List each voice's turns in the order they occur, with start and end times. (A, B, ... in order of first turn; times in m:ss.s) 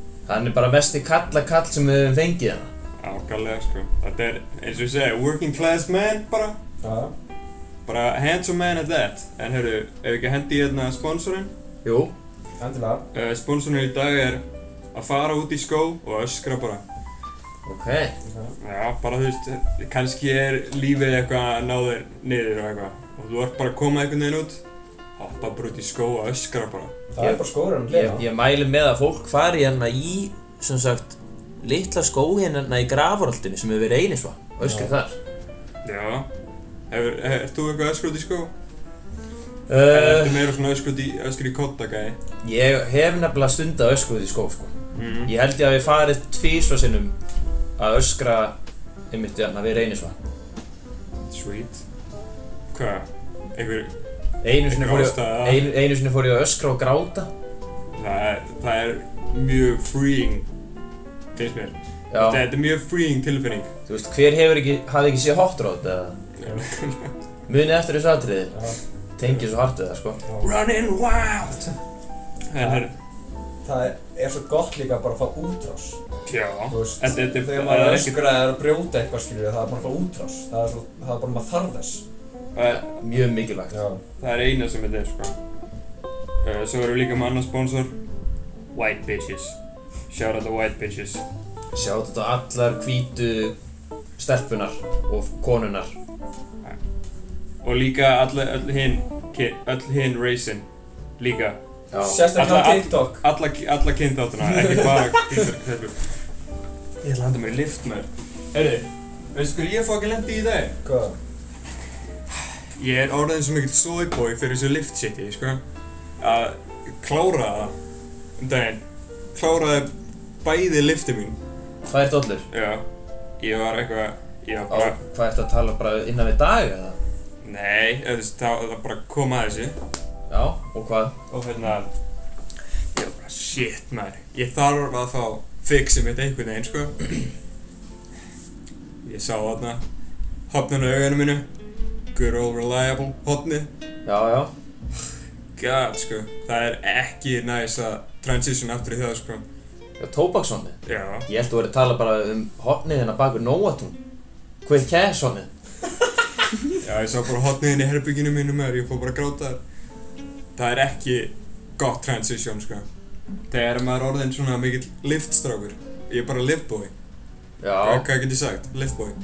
0:00.3-0:02.7 A
0:03.0-0:06.6 B
0:06.8-0:07.1 C
0:07.8-0:11.5 B
0:11.8-0:12.1 A
0:12.6-0:13.0 C
0:13.1-0:14.4 B
0:14.9-0:16.8 B
0:17.6-0:18.1 A
0:18.2-0:18.6 C
0:18.6-0:24.6 B
0:25.2-0:27.0 B
0:27.1-0:28.2 C
0:27.2-0:35.2 A
0:34.6-0:35.0 C
0:35.8-0:36.3 B
0:36.9-0:38.5 B
0:39.7-0:40.5 A
0:39.9-0:42.2 B
0:42.4-0:47.1 A
0:45.0-0:45.3 B
0:47.8-0:48.6 A
0:49.1-0:50.2 A
0:51.3-0:51.8 B
0:52.7-0:53.9 B
0:54.4-0:57.3 A
0:54.6-0:55.6 B
0:58.0-1:00.5 B
1:01.3-1:03.7 B
1:02.1-1:02.4 A
1:03.9-1:06.2 A
1:06.4-1:07.1 B
1:07.5-1:08.7 A
1:08.5-1:08.8 C
1:09.2-1:10.2 A
1:10.3-1:10.5 C
1:10.4-1:11.8 B
1:12.5-1:12.9 B
1:12.6-1:12.9 C
1:13.6-1:16.0 C
1:16.3-1:18.2 B
1:16.7-1:22.0 C
1:22.6-1:22.9 B
1:22.6-1:23.8 A
1:23.7-1:24.0 C
1:24.2-1:25.3 B
1:26.4-1:27.9 B
1:28.7-1:29.6 B
1:30.1-1:31.2 B
1:31.7-1:33.6 A
1:34.2-1:35.9 A
1:37.6-1:40.6 B
1:41.2-1:41.6 B
1:41.9-1:42.3 A
1:42.0-1:43.2 C
1:42.4-1:46.2 B
1:44.6-1:45.4 C
1:47.0-1:50.8 B
1:50.8-1:51.2 C
1:52.6-1:55.6 B
1:56.2-1:57.7 B
1:58.4-1:58.8 B
1:59.3-1:59.9 B
2:00.4-2:01.4 B
2:01.8-2:02.5 A
2:02.5-2:02.8 B
2:03.4-2:05.0 B
2:04.7-2:07.0 A
2:07.4-2:09.8 B
2:10.3-2:11.2 A
2:11.3-2:11.9 B
2:13.0-2:17.3 B
2:19.0-2:19.8 B
2:20.5-2:21.4 B
2:22.1-2:23.7 B
2:24.0-2:24.5 A
2:25.6-2:29.4 B
2:30.0-2:34.0 A
2:30.8-2:31.3 B
2:34.6-2:35.5 A
2:36.8-2:39.6 B
2:40.5-2:42.8 B
2:43.5-2:46.9 B
2:47.6-2:48.1 A
2:47.8-2:49.2 B